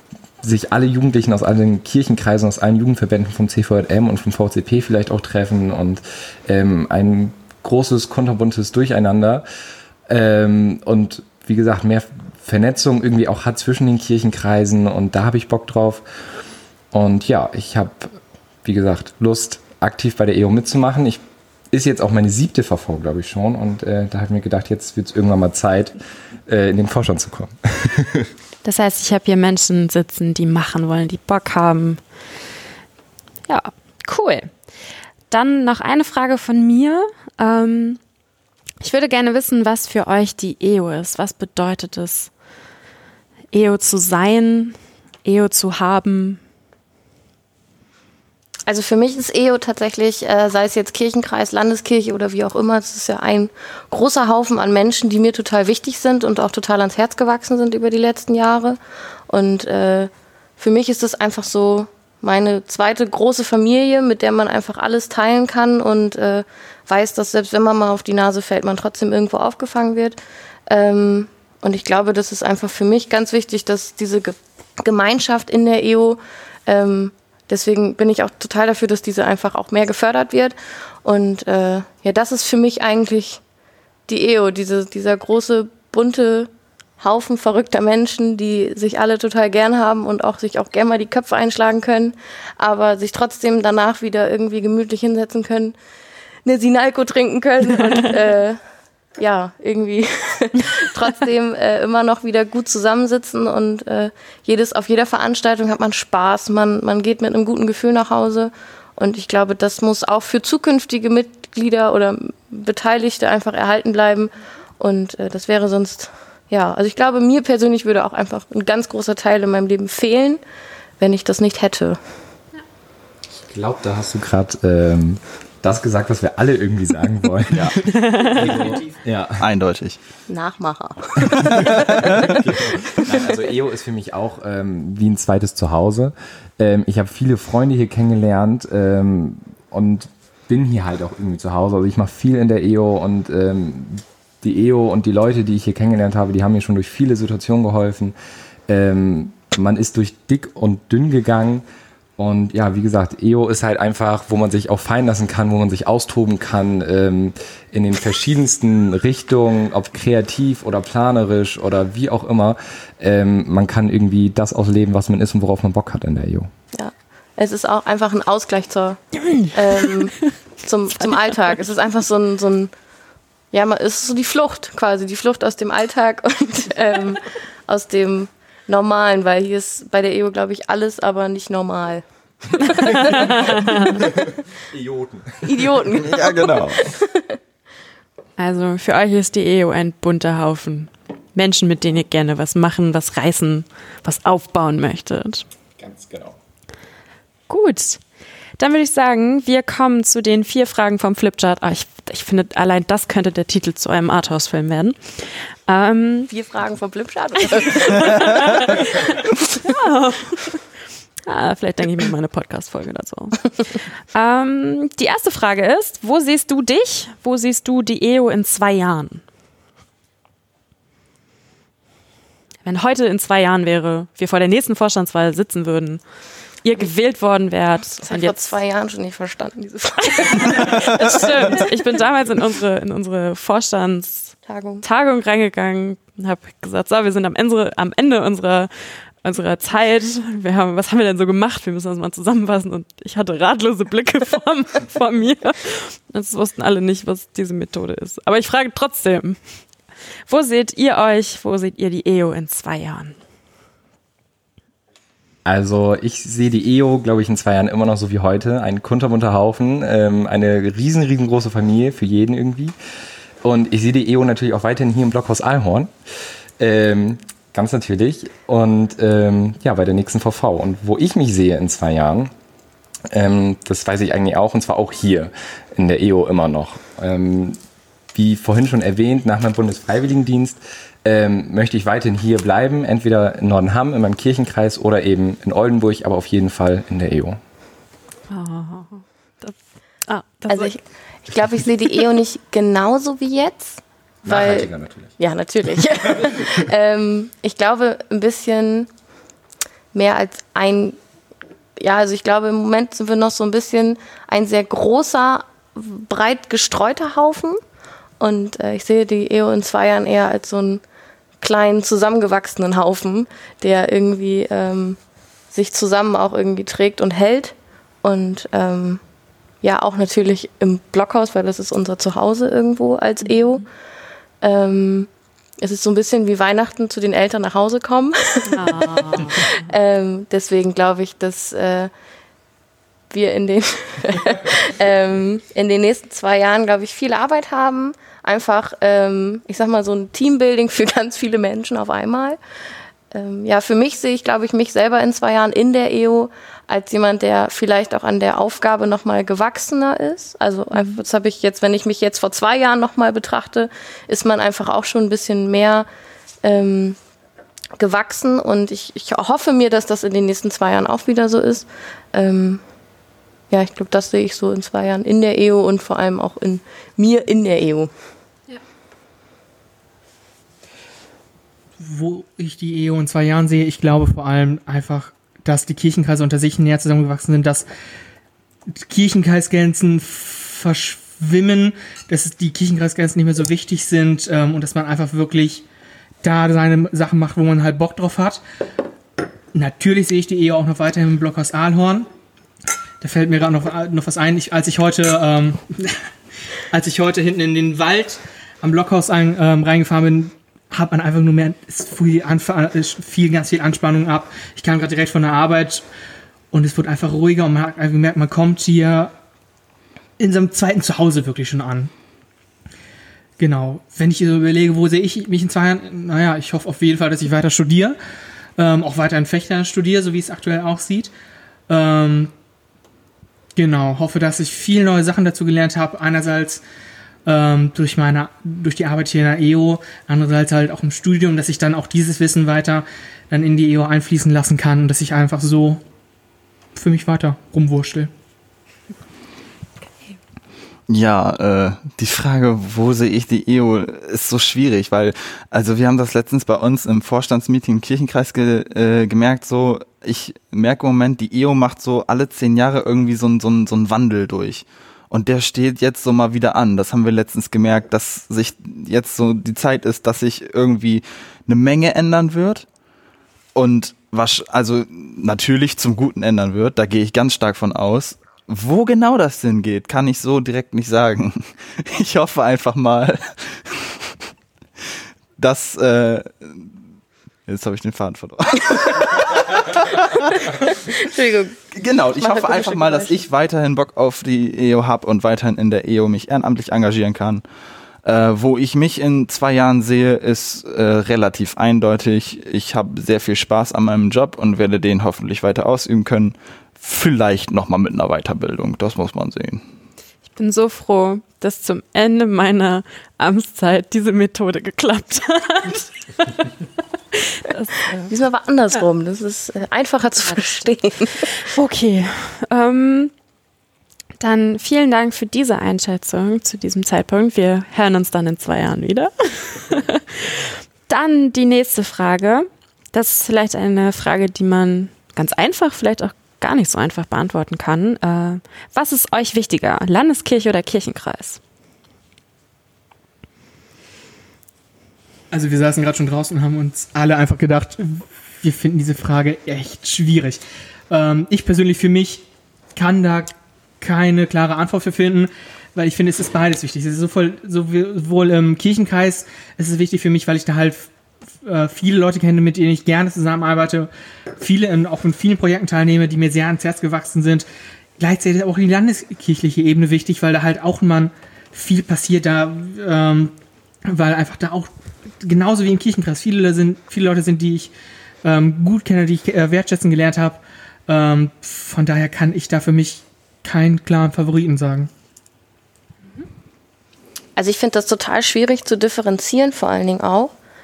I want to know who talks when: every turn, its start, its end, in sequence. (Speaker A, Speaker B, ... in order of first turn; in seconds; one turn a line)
Speaker A: 0.4-9.4
Speaker A: 10.1-16.0
Speaker A: 16.9-25.9
Speaker A: 26.5-28.3
Speaker B: 28.6-32.0
Speaker B: 33.5-34.5
Speaker B: 35.3-38.0
Speaker B: 38.8-42.3
Speaker B: 43.5-46.4
Speaker C: 48.7-58.8
Speaker C: 59.3-70.2
Speaker C: 70.7-83.4
Speaker C: 84.1-95.7
Speaker C: 96.4-98.6
Speaker C: 99.2-120.4
Speaker C: 121.0-122.0
Speaker A: 123.5-129.4
Speaker D: 127.5-127.8
Speaker B: 127.9-128.3
Speaker E: 128.2-128.9
Speaker D: 129.4-130.0
Speaker C: 130.3-131.7
Speaker D: 131.5-132.2
Speaker A: 132.1-148.1
Speaker A: 148.7-151.6
Speaker A: 152.2-166.5
Speaker C: 166.7-172.7
Speaker C: 173.5-184.0
Speaker A: 183.0-183.3
Speaker B: 183.0-183.8
Speaker A: 184.1-185.8
Speaker C: 185.4-187.4
Speaker D: 186.0-186.8
Speaker B: 188.4-195.4
Speaker A: 195.8-196.3
Speaker B: 197.5-198.0
Speaker B: 198.6-206.3
Speaker C: 206.3-209.6
Speaker B: 207.5-210.6
Speaker B: 211.2-213.6
Speaker B: 214.1-219.2
Speaker B: 222.6-226.0
Speaker B: 226.6-228.5
Speaker C: 228.0-231.7
Speaker B: 230.1-238.7
Speaker C: 234.4-234.8
Speaker B: 239.2-249.4
Speaker B: 250.3-253.2
Speaker A: 255.4-262.7
Speaker A: 263.4-265.9
Speaker A: 266.6-272.3
Speaker A: 273.1-277.6
Speaker A: 278.1-287.4
Speaker B: 288.3-289.6
Speaker B: 290.1-290.7
Speaker C: 290.5-298.9
Speaker A: 294.2-295.1
Speaker A: 296.1-296.6
Speaker C: 299.9-301.0
Speaker C: 301.8-307.6
Speaker C: 308.2-310.8
Speaker C: 311.4-315.0
Speaker C: 315.5-319.0
Speaker C: 319.6-323.6
Speaker C: 324.4-325.1
Speaker C: 325.6-331.9
Speaker B: 328.5-329.6
Speaker C: 333.1-342.4
Speaker C: 343.1-355.9
Speaker C: 356.4-357.0
Speaker C: 357.8-362.6
Speaker C: 363.5-367.9
Speaker E: 371.8-377.6
Speaker E: 378.7-385.6
Speaker E: 386.2-388.4
Speaker E: 389.5-392.1
Speaker E: 393.0-396.0
Speaker E: 396.7-405.8
Speaker E: 406.5-409.1
Speaker E: 410.2-411.9
Speaker E: 413.4-417.9
Speaker E: 418.6-421.1
Speaker E: 421.7-422.3
Speaker E: 423.6-426.6
Speaker E: 427.2-435.8
Speaker E: 436.7-438.1
Speaker D: 440.9-462.6
Speaker D: 463.5-474.2
Speaker D: 475.4-476.7
Speaker D: 477.5-481.0
Speaker C: 480.3-481.6
Speaker D: 481.7-487.4
Speaker C: 482.2-483.2
Speaker D: 488.0-499.6
Speaker B: 500.4-506.5
Speaker B: 507.1-508.1
Speaker C: 508.1-511.4
Speaker B: 511.4-513.1
Speaker B: 514.2-531.4
Speaker E: 535.3-550.9
Speaker E: 551.4-557.5
Speaker E: 558.0-563.3
Speaker E: 563.8-567.7
Speaker E: 568.2-574.9
Speaker C: 577.4-580.3